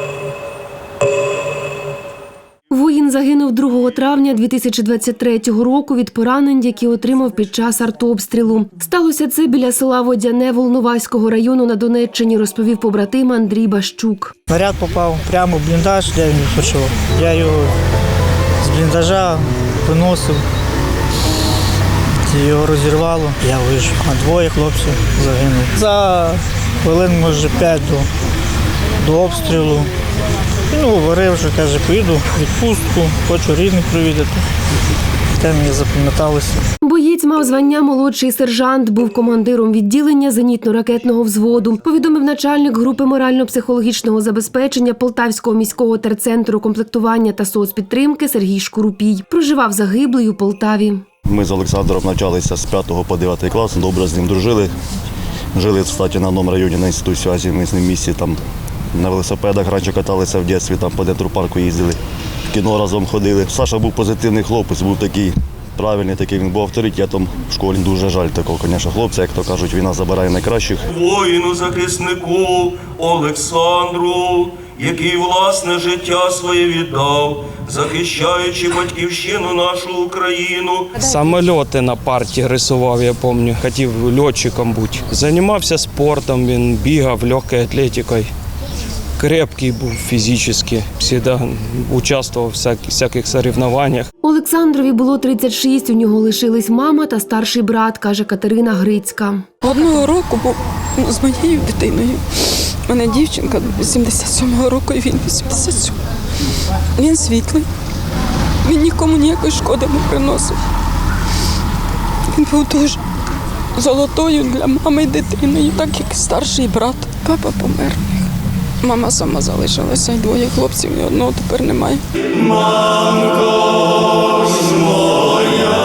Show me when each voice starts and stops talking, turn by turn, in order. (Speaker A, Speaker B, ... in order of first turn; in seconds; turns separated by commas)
Speaker A: 2.7-14.3, Speaker B: 14.5-17.7, Speaker B: 18.6-20.4, Speaker B: 22.2-28.1, Speaker B: 29.0-29.9, Speaker B: 30.7-34.4, Speaker B: 35.4-36.6, Speaker A: 36.8-51.0, Speaker C: 51.2-54.7, Speaker C: 55.5-58.4, Speaker C: 58.9-70.8, Speaker D: 70.9-81.0, Speaker E: 81.0-88.3, Speaker E: 89.2-94.1, Speaker A: 94.2-99.6, Speaker F: 99.6-106.0, Speaker F: 107.0-107.7, Speaker F: 108.6-110.6, Speaker F: 112.3-113.0, Speaker F: 113.8-118.3, Speaker F: 118.8-122.0